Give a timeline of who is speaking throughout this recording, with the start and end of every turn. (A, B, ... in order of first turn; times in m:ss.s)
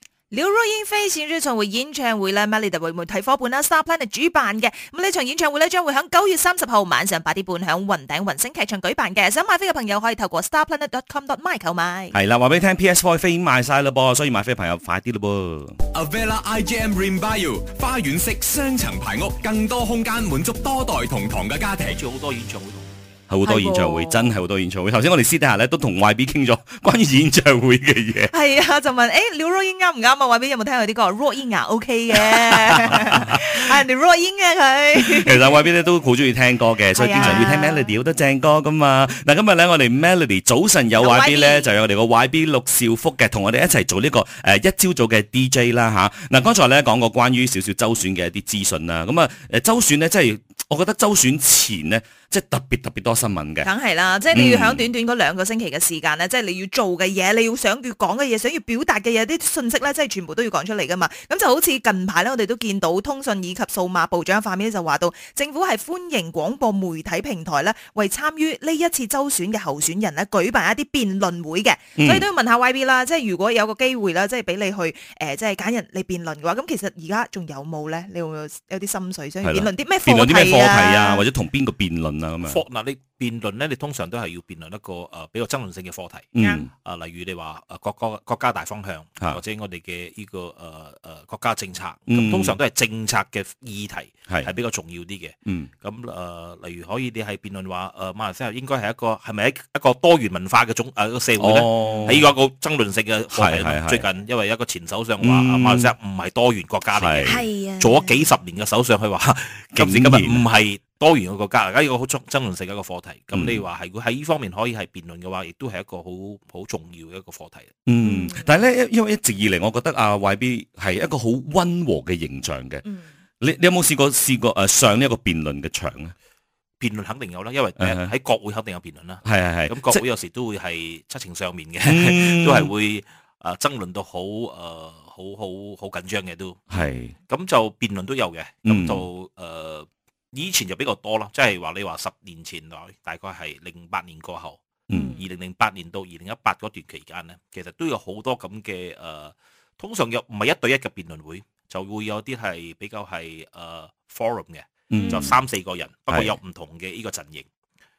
0:00.3-0:12.1 A
0:12.1-0:15.8 B
0:15.9-0:22.0 C
0:21.9-0:23.2 D
0:23.3-0:28.3 B
0:23.4-0:24.3 A
0:28.3-0:35.5 A
0:32.4-0:33.4 B
0:35.1-0:53.7 B
0:37.0-0:37.9 A
0:41.0-0:41.7 A
0:53.6-1:21.2 A
0:54.3-0:54.9 B
1:12.0-1:12.2 B
1:19.4-1:22.6 B
1:22.4-1:57.8 D
1:26.4-1:26.7 B
1:26.4-1:26.7 A
1:32.1-1:32.6 B
1:41.4-1:42.3 B
1:43.3-1:44.0 B
1:45.2-1:45.9 B
1:46.9-1:47.4 B
1:47.2-1:48.1 A
1:49.8-1:50.4 B
1:53.3-1:53.6 B
1:57.9-2:02.8 B
1:58.0-1:58.5 A
2:03.4-2:06.1 B
2:06.8-2:16.7 D
2:07.8-2:08.1 B
2:09.2-2:10.0 B
2:11.8-2:12.7 B
2:16.7-2:17.1 B
2:17.3-2:37.5 D
2:18.6-2:19.0 B
2:24.9-2:25.2 B
2:34.9-2:35.3 B
2:35.0-2:35.3 A
2:36.1-2:36.4 B